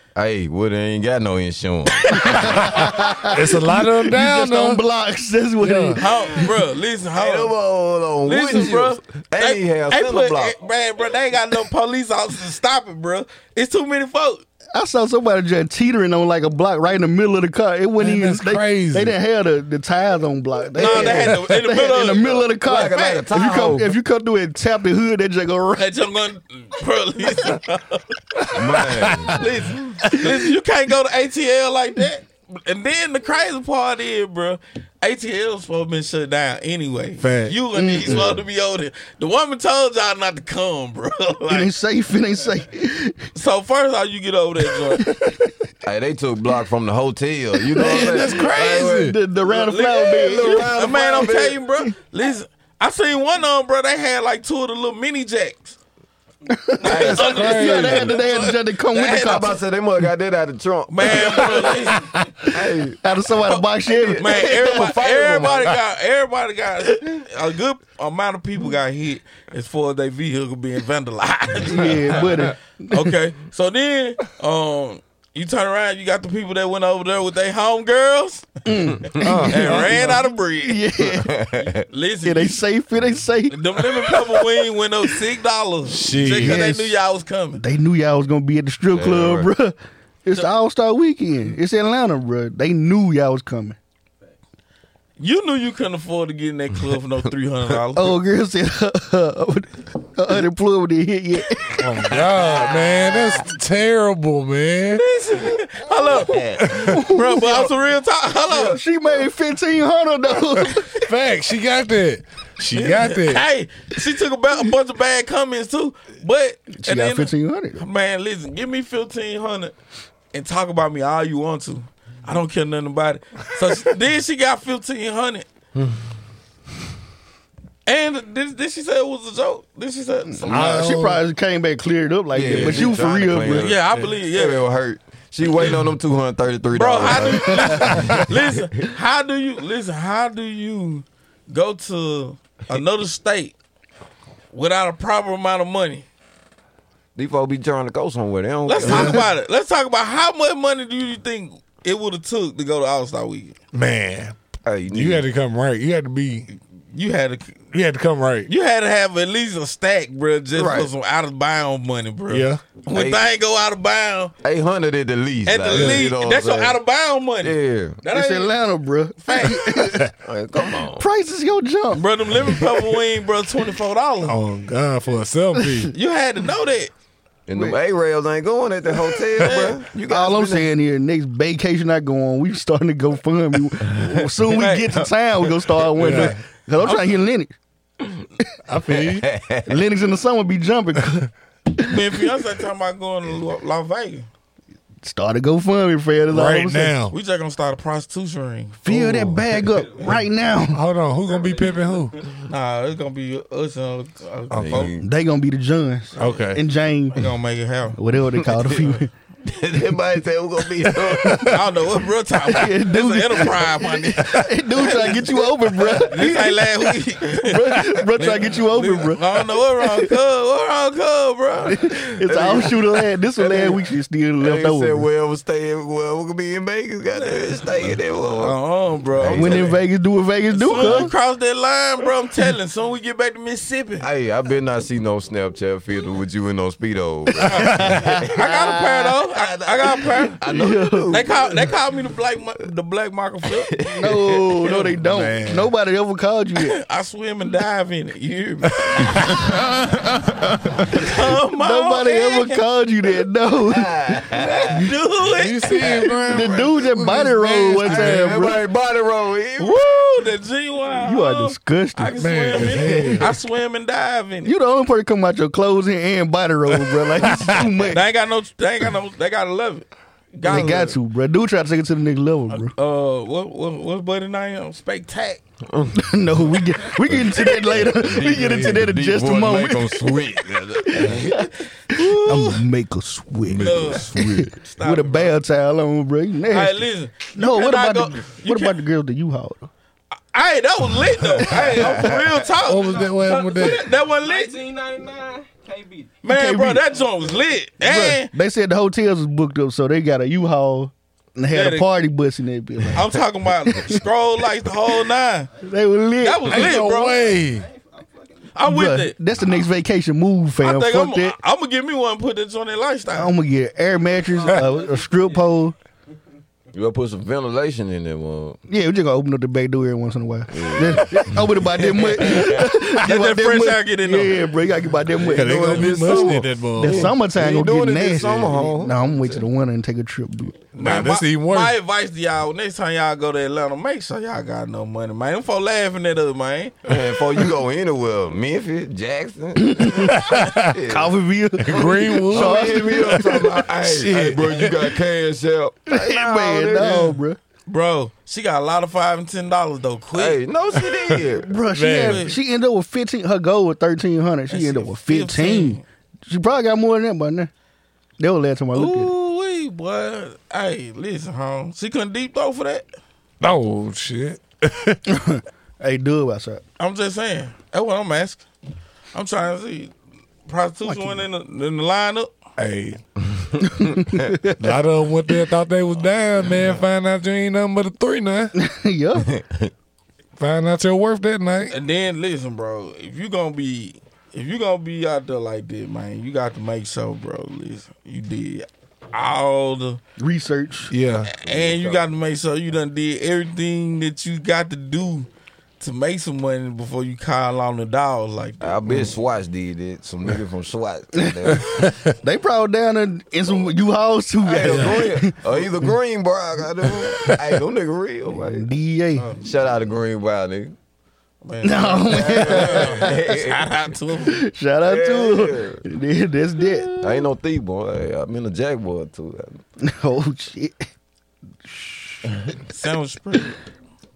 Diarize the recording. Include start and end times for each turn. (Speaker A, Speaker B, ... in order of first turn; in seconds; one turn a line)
Speaker A: 0.1-2.7
Speaker B: 2.1-6.4
Speaker C: 2.6-4.8
Speaker C: 5.6-6.0
Speaker D: 6.0-7.5
Speaker A: 7.2-10.6
Speaker D: 8.2-14.4
Speaker B: 14.7-25.9
Speaker C: 18.0-19.1
Speaker D: 20.8-22.5
Speaker A: 22.6-23.9
Speaker D: 25.8-28.6
Speaker A: 28.5-29.4
Speaker D: 29.1-41.7
Speaker C: 37.2-37.6
Speaker B: 37.7-38.3
Speaker B: 41.5-43.2
Speaker D: 43.3-45.1
Speaker B: 45.0-45.5
Speaker A: 45.8-51.6
Speaker B: 47.7-50.7
Speaker D: 47.9-48.8
Speaker C: 48.0-49.1
Speaker D: 49.5-55.8
Speaker B: 56.5-59.6
Speaker A: 56.8-57.4
Speaker D: 56.9-59.4
Speaker C: 57.2-58.1
Speaker A: 59.1-61.7
Speaker D: 60.9-62.2
Speaker A: 62.5-63.0
Speaker B: 63.0-65.2
Speaker D: 63.5-72.3
Speaker A: 63.9-65.7
Speaker B: 71.6-73.1
Speaker D: 72.9-78.5
Speaker B: 78.6-81.3
Speaker A: 79.1-80.0
Speaker D: 79.4-80.8
Speaker A: 81.0-81.8
Speaker D: 81.6-82.6
Speaker B: 82.2-84.5
Speaker D: 83.5-87.6
Speaker C: 85.9-86.6
Speaker B: 86.4-87.0
Speaker B: 87.5-93.8
Speaker A: 88.9-89.5
Speaker D: 95.2-98.2
Speaker B: 97.9-101.9
Speaker C: 101.8-105.0
Speaker D: 104.9-108.8
Speaker A: 106.1-106.9
Speaker B: 106.2-107.7
Speaker C: 106.7-107.0
Speaker B: 108.5-110.9
Speaker C: 111.0-113.4
Speaker D: 112.7-119.7
Speaker B: 116.8-117.8
Speaker D: 120.3-125.5
Speaker D: 127.8-130.8
Speaker B: 130.3-133.7
Speaker C: 130.5-131.2
Speaker A: 132.3-138.9
Speaker C: 132.5-132.9
Speaker D: 133.5-134.6
Speaker D: 136.7-143.5
Speaker D: 144.5-146.1
Speaker A: 147.1-149.2
Speaker D: 148.7-153.6
Speaker C: 153.7-154.3
Speaker A: 154.6-155.2
Speaker C: 154.9-156.5
Speaker D: 156.9-157.6
Speaker C: 157.7-158.5
Speaker D: 158.5-164.3
Speaker A: 160.5-160.9
Speaker C: 162.3-162.6
Speaker A: 162.9-163.3
Speaker A: 164.4-166.8
Speaker D: 165.4-168.5
Speaker C: 165.7-166.1
Speaker A: 167.4-168.0
Speaker B: 168.1-170.1
Speaker D: 169.2-169.7
Speaker A: 170.2-171.1
Speaker B: 170.8-172.6
Speaker D: 171.9-174.4
Speaker C: 174.2-175.9
Speaker B: 175.6-175.8
Speaker D: 175.9-176.9
Speaker A: 177.5-180.7
Speaker D: 179.4-179.7
Speaker B: 180.1-187.5
Speaker D: 184.5-185.6
Speaker C: 186.0-186.4
Speaker C: 188.7-189.3
Speaker A: 188.9-189.8
Speaker B: 189.7-192.1
Speaker D: 191.8-194.3
Speaker B: 195.0-197.1
Speaker C: 196.3-197.1
Speaker D: 197.1-198.8
Speaker B: 198.8-200.8
Speaker C: 198.9-199.3
Speaker C: 200.7-202.1
Speaker E: 201.3-202.0
Speaker D: 202.4-204.9
Speaker C: 204.5-204.9
Speaker A: 204.6-205.0
Speaker B: 205.0-207.3
Speaker C: 206.2-206.6
Speaker D: 207.1-208.0
Speaker B: 207.9-209.1
Speaker A: 208.4-208.9
Speaker A: 209.4-211.6
Speaker B: 211.0-211.5
Speaker D: 211.4-215.1
Speaker B: 212.5-216.7
Speaker D: 216.1-221.8
Speaker B: 217.2-220.1
Speaker B: 221.7-225.1
Speaker A: 221.8-223.8
Speaker A: 224.4-228.6
Speaker D: 228.4-229.8
Speaker A: 229.1-229.7
Speaker B: 229.3-231.1
Speaker D: 230.5-234.0
Speaker A: 230.8-231.1
Speaker A: 234.0-238.3
Speaker D: 237.4-240.4
Speaker B: 237.6-239.1
Speaker A: 239.3-241.7
Speaker B: 240.4-241.3
Speaker D: 241.1-243.8
Speaker A: 243.7-244.8
Speaker B: 243.9-246.8
Speaker C: 245.0-245.7
Speaker D: 246.6-249.0
Speaker D: 250.9-252.6
Speaker B: 251.5-254.9
Speaker A: 253.7-254.8
Speaker D: 254.7-256.2
Speaker C: 255.3-258.5
Speaker B: 256.2-258.6
Speaker A: 257.9-260.0
Speaker D: 259.6-264.5
Speaker B: 261.0-262.1
Speaker C: 262.2-263.3
Speaker A: 262.7-263.2
Speaker B: 264.4-268.0
Speaker C: 267.2-267.6
Speaker D: 267.9-271.0
Speaker B: 270.4-272.7
Speaker D: 272.5-275.4
Speaker A: 275.7-276.1
Speaker B: 275.9-280.2
Speaker A: 276.9-281.4
Speaker B: 280.9-289.7
Speaker D: 281.4-282.6
Speaker C: 283.5-284.5
Speaker D: 283.5-285.4
Speaker D: 286.5-288.8
Speaker D: 290.3-294.6
Speaker B: 291.6-292.0
Speaker A: 291.6-292.0
Speaker C: 292.6-293.9
Speaker E: 293.6-296.2
Speaker D: 296.2-298.3
Speaker B: 296.2-296.9
Speaker B: 297.8-303.1
Speaker D: 301.5-301.9
Speaker D: 302.9-305.5
Speaker B: 305.6-306.6
Speaker D: 306.2-307.3
Speaker C: 306.4-307.6
Speaker E: 307.4-308.3
Speaker D: 308.5-309.1
Speaker B: 308.6-311.4
Speaker D: 310.6-313.3
Speaker B: 313.1-315.7
Speaker E: 314.4-315.4
Speaker A: 316.7-318.6
Speaker B: 318.7-330.7
Speaker A: 320.5-322.7
Speaker D: 323.0-324.5
Speaker A: 325.2-329.4
Speaker C: 325.3-327.1
Speaker D: 330.7-336.8
Speaker C: 330.8-331.8
Speaker A: 336.9-341.1
Speaker B: 339.6-340.3
Speaker C: 340.2-340.7
Speaker B: 340.9-344.7
Speaker C: 341.6-343.4
Speaker A: 341.7-347.1
Speaker B: 345.9-347.4
Speaker D: 346.8-347.1
Speaker D: 347.7-350.4
Speaker A: 350.1-351.5
Speaker B: 351.4-357.5
Speaker C: 351.7-352.2
Speaker D: 352.0-352.3
Speaker D: 354.5-355.8
Speaker B: 358.2-359.1
Speaker D: 358.7-362.9
Speaker C: 363.4-365.0
Speaker B: 365.1-366.6
Speaker D: 366.8-368.4
Speaker D: 369.1-369.9
Speaker D: 370.5-372.3
Speaker B: 370.9-371.2
Speaker C: 372.6-373.0
Speaker B: 373.7-374.6
Speaker C: 374.6-378.5
Speaker B: 378.6-379.3
Speaker A: 379.2-379.7
Speaker C: 380.4-381.7
Speaker D: 381.7-390.0
Speaker B: 390.2-390.9
Speaker C: 390.9-391.3
Speaker D: 391.2-395.3
Speaker A: 391.4-392.0
Speaker D: 395.8-398.7
Speaker A: 398.6-401.7
Speaker B: 401.1-401.6
Speaker C: 401.7-401.9
Speaker B: 402.2-405.6
Speaker A: 404.4-408.7
Speaker B: 408.3-409.3
Speaker D: 409.1-409.5
Speaker A: 409.4-410.7
Speaker D: 411.4-414.4
Speaker B: 411.6-413.3
Speaker A: 412.1-413.7
Speaker B: 414.2-417.3
Speaker A: 414.8-415.8
Speaker A: 416.9-419.6
Speaker B: 419.8-420.9
Speaker B: 421.6-422.3
Speaker D: 422.7-423.6